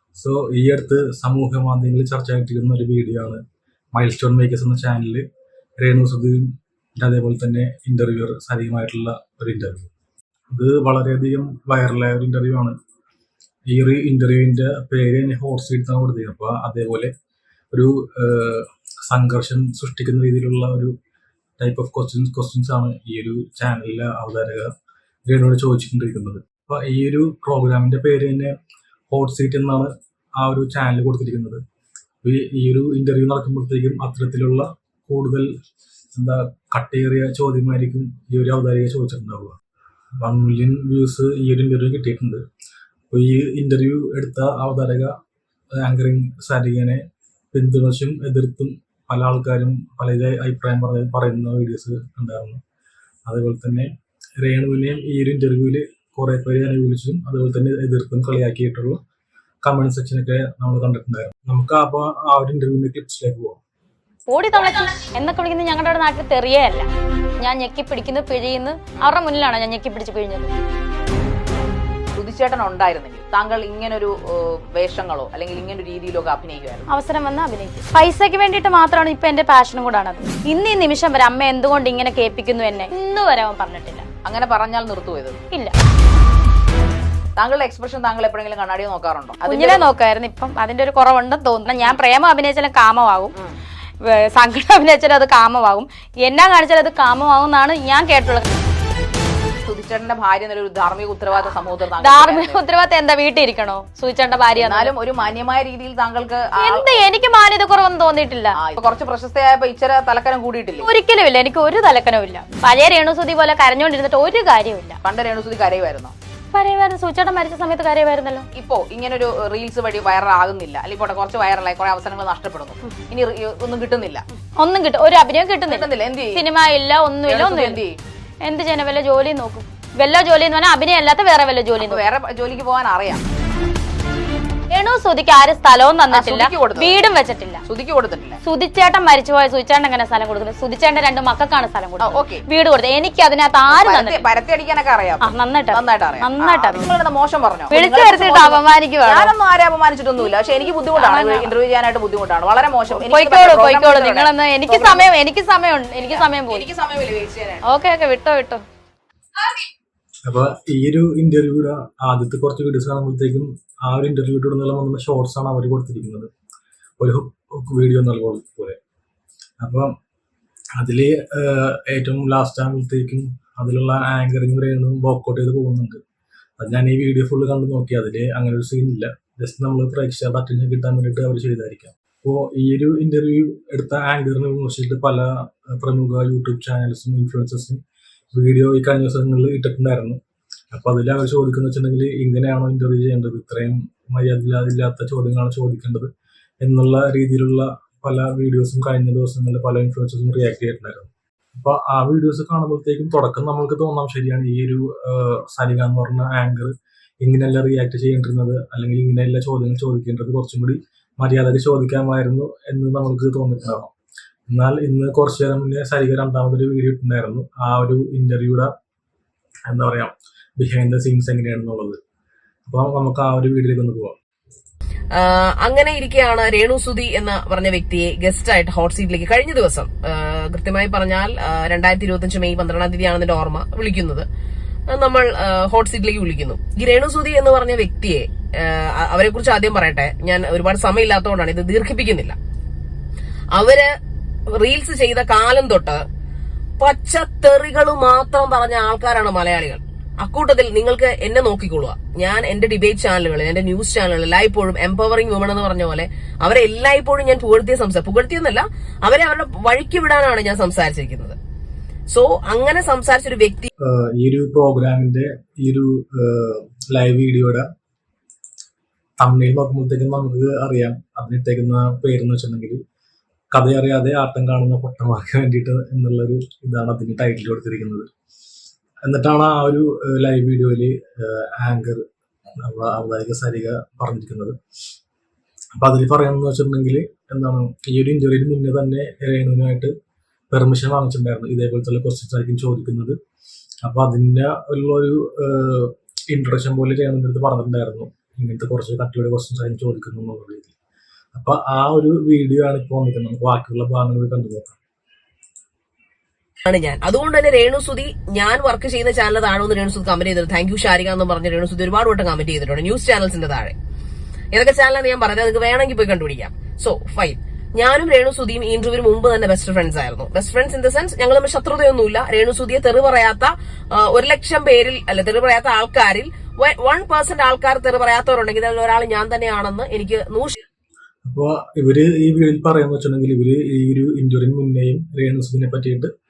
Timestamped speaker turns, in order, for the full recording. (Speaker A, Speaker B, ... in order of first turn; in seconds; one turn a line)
Speaker A: 0.2-3.4
Speaker A: 3.9-5.2
Speaker A: 5.8-9.9
Speaker A: 10.5-12.8
Speaker A: 13.7-17.1
Speaker A: 17.7-20.9
Speaker A: 21.6-24.7
Speaker A: 25.3-28.6
Speaker A: 29.1-31.6
Speaker A: 32.2-35.5
Speaker A: 36.1-39.6
Speaker A: 40.2-42.4
Speaker A: 43.1-45.1
Speaker A: 45.8-52.6
Speaker A: 53.3-59.0
Speaker A: 59.6-63.6
Speaker B: 64.3-66.9
Speaker B: 67.4-70.5
Speaker C: 72.2-76.9
Speaker B: 76.9-84.0
Speaker C: 84.2-85.4
Speaker C: 87.4-89.9
Speaker B: 89.5-93.3
Speaker B: 94.0-98.5
Speaker C: 99.7-102.6
Speaker B: 102.0-104.9
Speaker C: 104.6-107.0
Speaker B: 106.6-108.6
Speaker C: 108.6-110.9
Speaker B: 110.8-115.0
Speaker C: 115.0-116.1
Speaker B: 116.5-118.5
Speaker C: 118.5-124.2
Speaker B: 124.6-127.8
Speaker C: 125.7-126.4
Speaker C: 127.3-128.0
Speaker B: 128.4-132.0
Speaker C: 131.8-133.2
Speaker B: 134.7-137.6
Speaker C: 136.1-136.9
Speaker C: 137.7-138.4
Speaker B: 138.4-144.3
Speaker C: 142.0-142.4
Speaker C: 143.7-155.1
Speaker B: 145.2-146.9
Speaker B: 147.7-149.3
Speaker B: 151.0-151.5
Speaker B: 152.9-156.7
Speaker C: 156.1-157.6
Speaker B: 157.6-158.6
Speaker A: 160.3-166.3
Speaker A: 167.0-168.8
Speaker A: 169.6-169.9
Speaker A: 170.8-176.0
Speaker A: 176.6-187.8
Speaker A: 188.3-190.2
Speaker A: 190.7-196.1
Speaker A: 196.6-213.9
Speaker A: 214.5-218.7
Speaker A: 219.7-222.0
Speaker A: 222.7-224.2
Speaker D: 225.1-234.3
Speaker D: 234.9-242.4
Speaker D: 243.5-243.9
Speaker D: 244.5-246.0
Speaker D: 246.8-261.4
Speaker D: 262.1-263.7
Speaker A: 263.8-267.7
Speaker A: 269.2-272.8
Speaker A: 273.5-278.1
Speaker A: 279.0-282.0
Speaker A: 282.6-284.6
Speaker A: 285.8-289.9
Speaker A: 290.5-293.2
Speaker A: 293.8-300.7
Speaker A: 301.3-304.8
Speaker D: 306.7-313.8
Speaker D: 314.5-330.6
Speaker A: 331.3-336.1